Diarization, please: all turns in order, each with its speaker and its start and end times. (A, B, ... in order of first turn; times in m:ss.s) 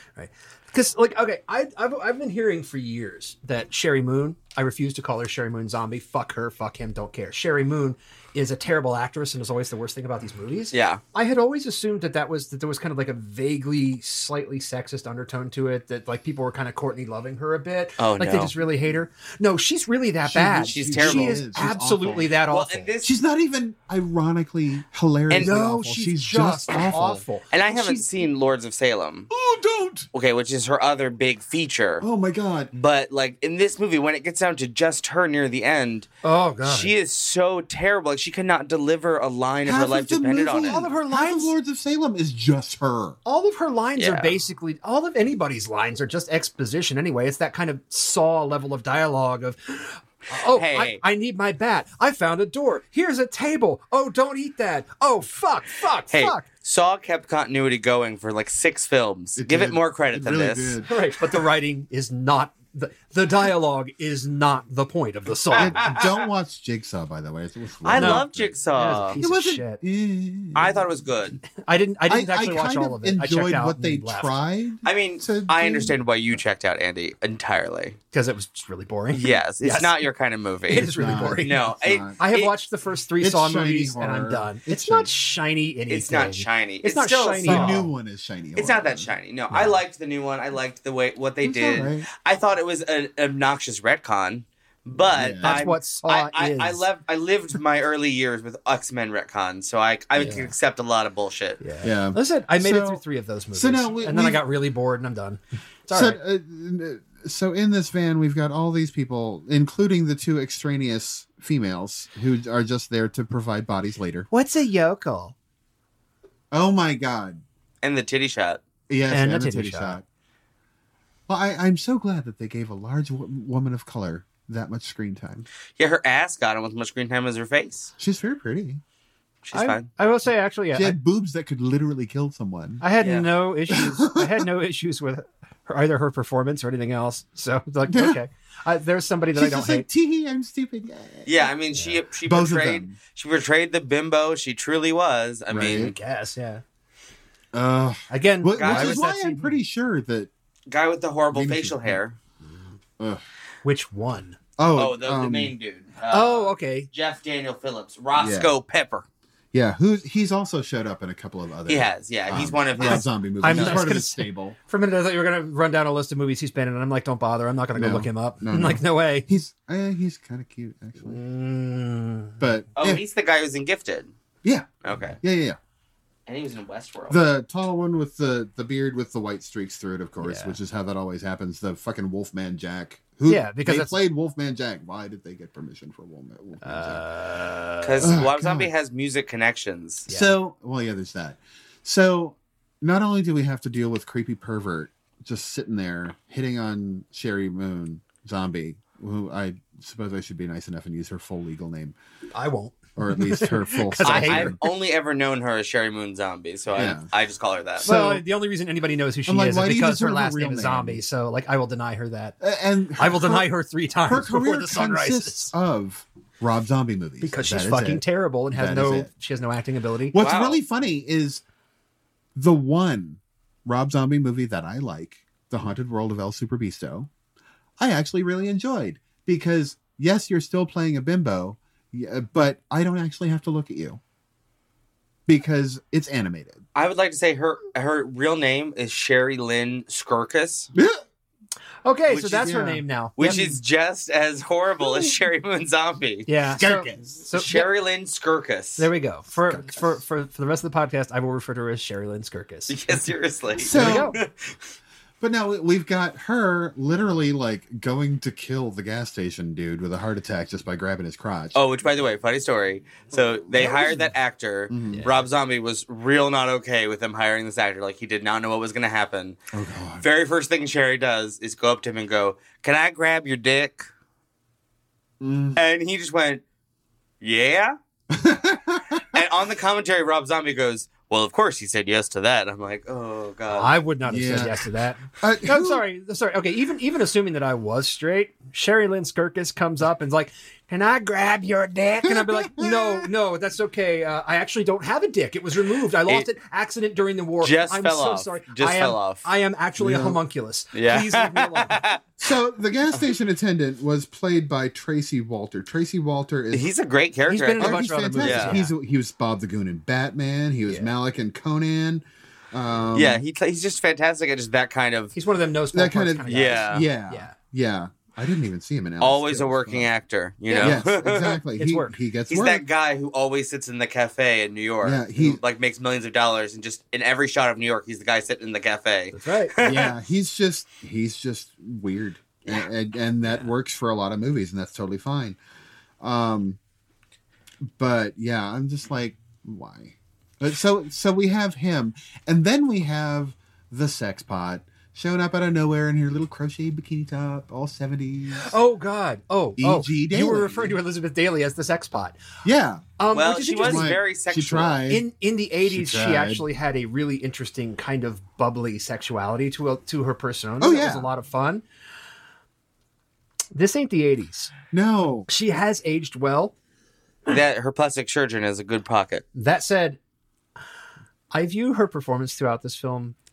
0:00.2-0:22.9 A
0:10.7-0:11.0 B
0:18.0-0:18.5 B
0:20.2-0:22.4 C
0:20.6-0:21.4 B
0:22.5-0:23.1 B
0:23.0-0:27.2 C
0:25.4-0:28.0 A
0:27.5-0:29.3 B
0:29.3-0:30.1 C
0:30.1-0:32.0 B
0:32.0-0:32.7 C
0:32.7-0:36.1 B
0:36.2-0:36.9 A
0:36.6-0:40.8 B
0:39.6-0:43.2 C
0:40.7-0:41.5 A
0:43.2-0:56.4 A
0:44.0-0:44.3 B
0:50.5-0:51.0 B
0:56.1-1:00.8 B
0:59.4-1:01.0 C
1:00.8-1:06.0 A
1:05.5-1:08.6 C
1:07.8-1:09.2 B
1:08.0-1:09.8 A
1:09.1-1:10.9 C
1:10.5-1:11.4 B
1:11.6-1:14.3 A
1:12.1-1:16.4 C
1:14.8-1:18.0 B
1:18.1-1:20.0 A
1:19.1-1:22.5 B
1:20.7-1:21.6 A
1:21.0-1:22.2 C
1:22.2-1:27.9 A
1:23.2-1:25.1 C
1:25.9-1:27.8 B
1:27.4-1:29.1 C
1:28.6-1:41.6 B
1:29.5-1:29.8 A
1:31.4-1:32.1 C
1:35.0-1:35.7 C
1:35.4-1:36.8 A
1:40.2-1:40.5 A
1:41.6-1:46.2 A
1:41.8-1:43.0 C
1:43.5-1:44.4 C
1:45.9-1:54.3 C
1:54.3-1:55.3 A
1:56.5-1:57.4 C
1:57.8-1:58.6 B
1:58.9-2:00.0 C
1:59.1-2:00.0 A
2:01.3-2:05.4 C
2:05.8-2:07.9 B
2:08.0-2:08.8 C
2:09.4-2:09.9 B
2:09.5-2:11.0 A
2:10.7-2:12.8 C
2:12.8-2:19.8 A
2:13.0-2:13.3 B
2:13.7-2:14.4 C
2:17.9-2:18.2 C
2:19.3-2:21.4 C
2:21.2-2:25.9 B
2:21.7-2:22.0 A
2:22.2-2:23.0 C
2:25.5-2:25.9 C
2:25.7-2:26.6 A
2:27.5-2:30.3 C
2:28.1-2:29.5 A
2:28.6-2:29.0 B
2:30.7-2:32.2 B
2:31.3-2:32.0 C
2:32.4-2:32.7 A
2:33.6-2:34.4 A
2:34.6-2:35.5 C
2:34.7-2:39.0 B
2:36.1-2:36.9 A
2:38.1-2:38.5 C
2:39.5-2:44.6 C
2:41.7-2:44.0 B
2:42.8-2:49.3 A
2:47.7-2:51.2 C
2:51.0-2:52.4 A
2:52.4-2:53.0 C
2:52.8-2:54.1 B
2:54.4-2:55.6 C
2:54.8-2:55.2 B
2:56.3-2:57.2 B
2:57.1-3:07.0 C
3:00.2-3:00.6 A
3:03.2-3:04.0 A
3:06.6-3:08.2 A
3:07.8-3:10.1 B
3:08.0-3:08.7 C
3:10.1-3:10.3 A
3:10.1-3:21.9 C
3:22.3-3:24.7 A
3:23.0-3:24.6 C
3:24.0-3:27.9 B
3:26.7-3:27.0 C
3:27.8-3:28.2 C
3:27.8-3:32.4 A
3:29.3-3:31.0 C
3:32.4-3:33.5 C
3:33.0-3:35.5 A
3:34.0-3:39.1 C
3:37.2-3:40.2 A
3:40.1-3:41.4 C
3:40.2-3:40.6 B
3:42.4-3:47.1 C
3:47.8-3:54.0 C
3:55.3-3:56.6 C
3:56.7-4:00.7 B
4:00.7-4:01.0 C
4:01.8-4:03.6 A
4:02.1-4:02.5 B
4:02.3-4:03.4 C
4:03.2-4:06.3 B
4:06.2-4:07.7 A
4:06.6-4:07.1 C
4:07.3-4:08.9 B
4:08.8-4:12.8 A
4:09.5-4:09.8 C
4:12.7-4:14.6 B
4:13.6-4:14.2 C
4:13.7-4:14.2 A
4:15.2-4:21.6 C
4:21.5-4:29.4 B
4:23.5-4:24.1 C
4:24.7-4:25.0 C
4:24.9-4:25.3 A
4:29.5-4:30.0 C
4:30.0-4:33.9 B
4:35.2-4:35.6 C
4:35.6-4:36.4 B
4:37.2-4:37.8 B
4:38.1-4:39.0 C
4:39.1-4:43.7 B
4:43.5-5:01.8 A
4:44.0-4:44.6 C
4:45.2-4:45.8 C
4:52.0-4:53.1 C
4:57.4-4:59.2 B
4:59.8-5:00.2 C
5:00.7-5:02.0 B
5:02.2-5:06.7 C
5:06.5-5:08.6 B
5:07.3-5:08.7 A
5:07.6-5:13.2 C
5:10.7-5:10.9 A
5:12.9-5:15.1 B
5:15.1-5:17.3 A
5:15.7-5:19.9 C
5:16.3-5:16.8 B
5:19.0-5:21.4 B
5:20.5-5:20.8 A
5:20.6-5:22.6 C
5:21.6-5:22.0 A
5:22.3-5:29.9 B
5:24.8-5:25.4 C
5:29.1-5:29.5 A
5:29.6-5:35.4 C
5:36.0-5:36.6 C
5:37.6-5:48.6 C
5:48.4-5:52.2 A
5:49.6-5:50.8 C
5:52.4-5:52.9 C
5:53.0-5:53.9 A
5:53.1-5:54.8 B
5:53.6-5:55.0 C
5:54.9-6:01.6 A
5:55.6-5:56.4 C
6:00.6-6:01.1 C
6:03.5-6:04.5 A
6:04.7-6:05.3 C
6:05.3-6:06.5 A
6:07.2-6:09.2 B
6:09.3-6:10.0 A
6:11.3-6:13.1 A